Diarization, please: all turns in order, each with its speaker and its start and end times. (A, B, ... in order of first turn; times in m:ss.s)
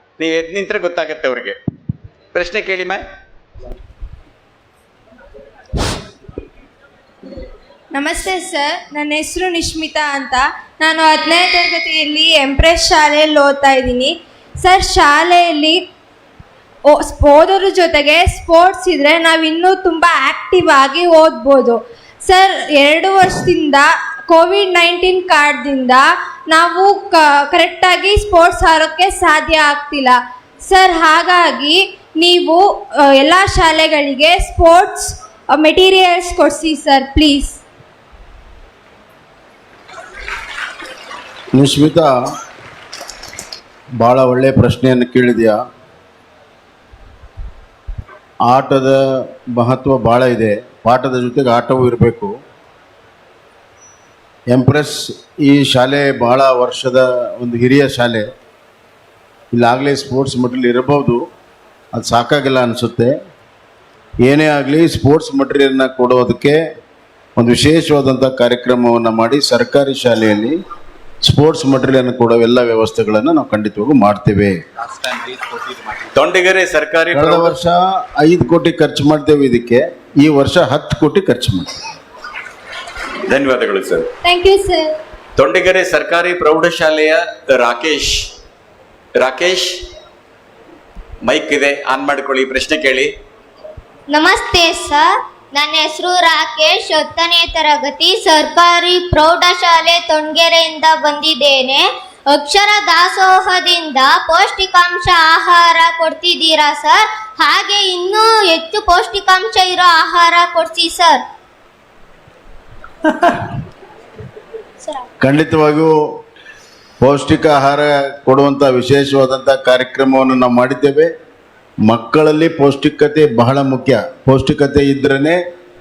0:00.2-0:01.6 A
0:02.3-0:03.0 A
0:07.9-0:15.8 B
0:16.9-0:37.6 B
0:41.5-0:42.1 C
0:44.0-0:45.6 C
0:48.5-0:49.0 C
0:49.5-0:52.4 C
0:54.5-0:58.3 C
0:59.5-1:01.2 C
1:01.9-1:03.1 C
1:04.2-1:06.6 C
1:07.4-1:10.6 C
1:11.2-1:14.6 C
1:14.9-1:17.6 A
1:17.1-1:21.7 C
1:23.2-1:24.1 A
1:24.2-1:24.9 B
1:25.4-1:28.3 A
1:29.2-1:29.8 A
1:31.2-1:33.1 A
1:34.1-1:51.2 D
1:55.2-1:55.9 C
1:57.0-2:01.1 C
2:01.9-2:05.4 C